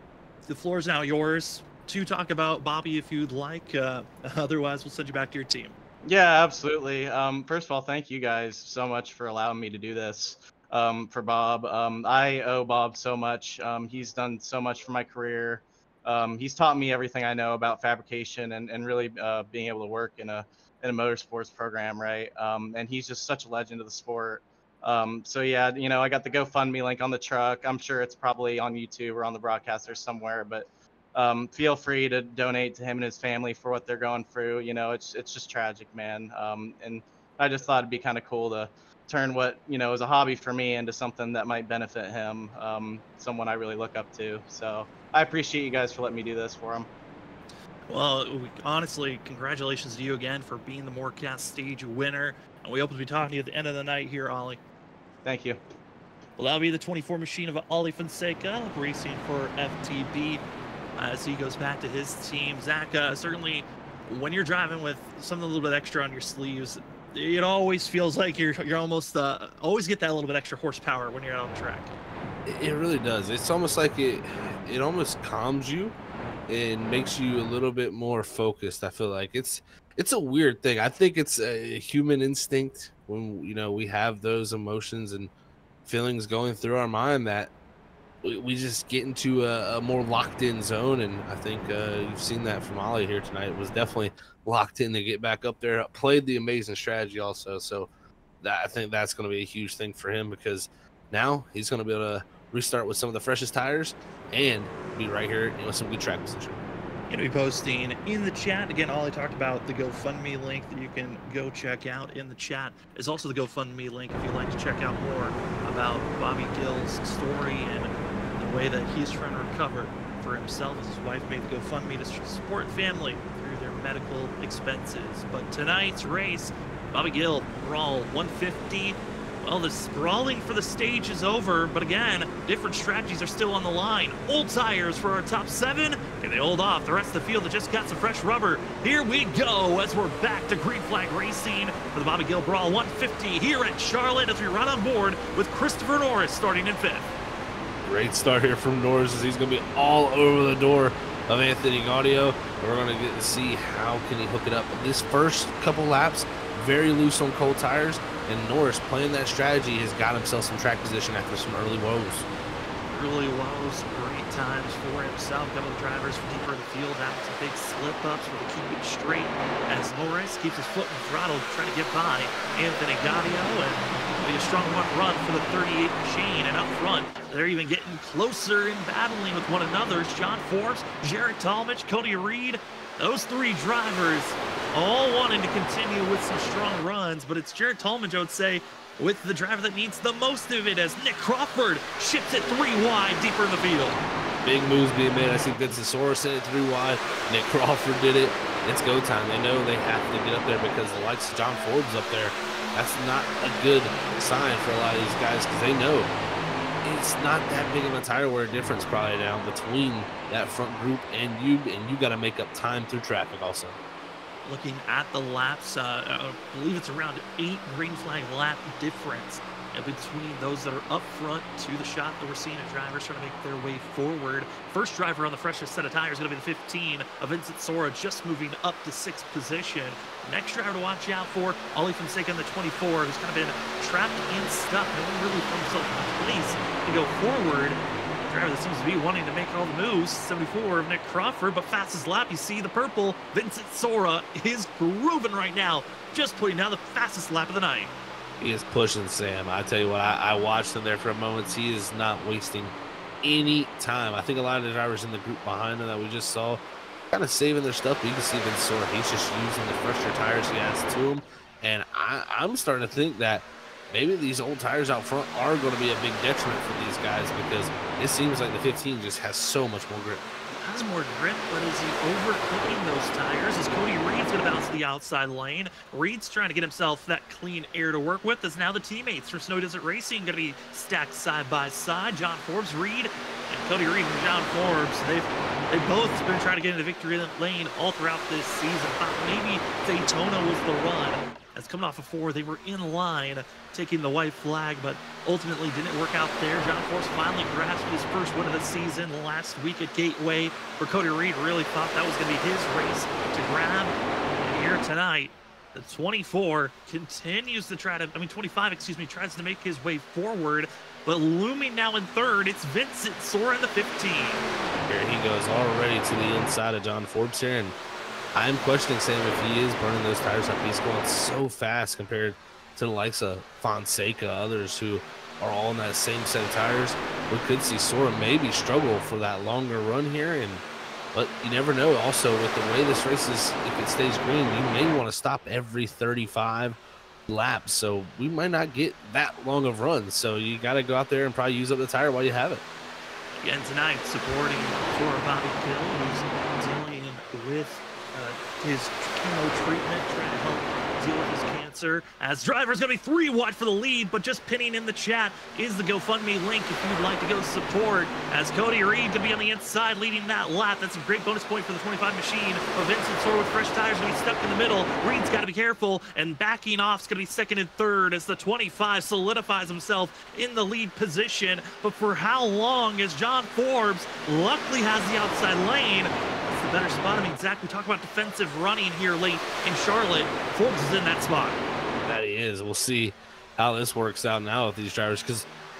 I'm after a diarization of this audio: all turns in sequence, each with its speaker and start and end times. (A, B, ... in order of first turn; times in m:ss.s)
0:00.5-0:05.8 A
0:06.0-0:46.9 B
0:47.9-0:54.6 A
0:55.2-0:55.6 B
0:56.4-1:00.4 A
1:01.0-1:11.9 A
1:12.4-1:15.9 C
1:16.5-1:25.3 C
1:25.8-1:27.5 C
1:28.2-1:37.9 C
1:38.4-1:46.6 C
1:47.1-2:27.1 A
2:27.8-2:42.3 C
2:42.9-3:14.0 A
3:14.4-3:26.1 C
3:26.8-3:33.8 C
3:34.4-4:07.9 A
4:08.4-4:30.2 C
4:30.6-5:14.4 A
5:14.9-5:17.8 C
5:18.3-5:42.6 C
5:43.4-6:21.6 A
6:22.0-6:25.5 C